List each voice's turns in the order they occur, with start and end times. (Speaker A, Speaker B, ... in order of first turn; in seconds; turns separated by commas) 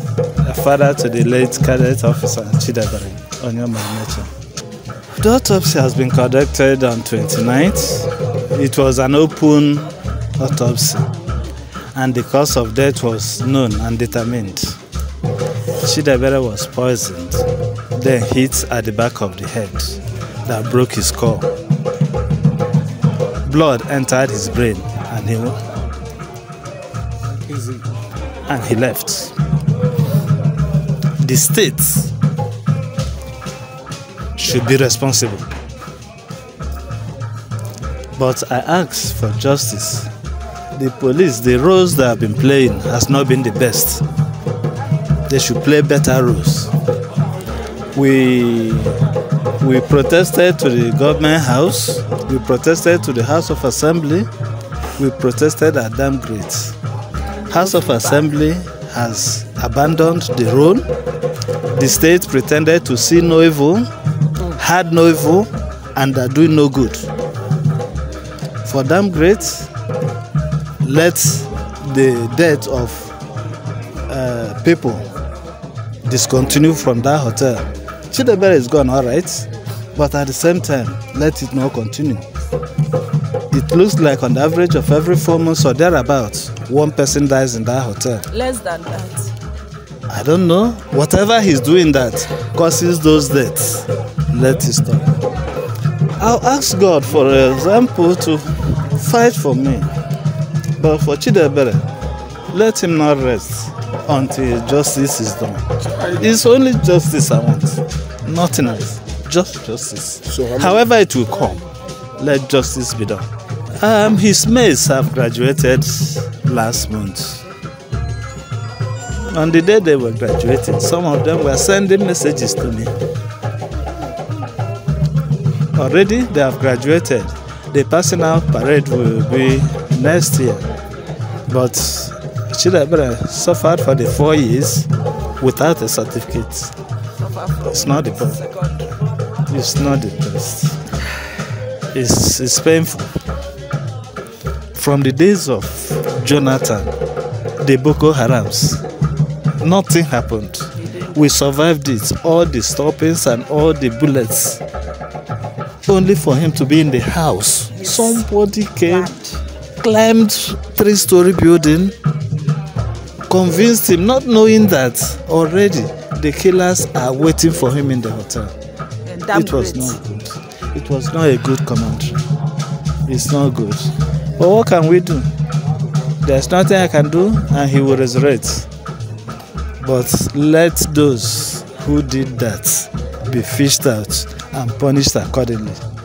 Speaker A: 0.4-4.3, Speaker A: 5.2-11.1, Speaker A: 11.9-14.8, Speaker A: 15.8-21.5, Speaker A: 23.4-25.6, Speaker A: 28.5-29.4, Speaker A: 31.2-32.1, Speaker A: 34.3-35.5, Speaker A: 38.1-40.1, Speaker A: 40.7-44.0, Speaker A: 45.3-46.7, Speaker A: 47.9-49.0, Speaker A: 49.6-54.3, Speaker A: 55.0-56.8, Speaker A: 57.5-60.9, Speaker A: 61.7-63.9, Speaker A: 64.4-67.1, Speaker A: 68.6-69.7, Speaker A: 70.8-73.1, Speaker A: 74.1-75.0, Speaker A: 76.0-82.3, Speaker A: 83.5-88.3, Speaker B: 88.3-89.3, Speaker A: 90.1-95.1, Speaker A: 96.2-99.9, Speaker A: 100.8-101.9, Speaker A: 102.5-117.4, Speaker A: 119.2-122.9, Speaker A: 125.7-130.7, Speaker A: 131.5-136.7, Speaker B: 137.2-138.9, Speaker A: 137.6-138.4, Speaker A: 139.5-140.8, Speaker A: 141.9-143.2, Speaker A: 144.7-146.9, Speaker A: 147.6-148.8, Speaker A: 149.6-154.6, Speaker A: 155.8-159.1, Speaker B: 159.0-159.3, Speaker A: 159.8-161.9, Speaker A: 163.3-168.5, Speaker B: 169.1-170.0, Speaker A: 169.2-172.2, Speaker A: 173.1-175.3, Speaker A: 176.2-178.7, Speaker A: 179.8-185.8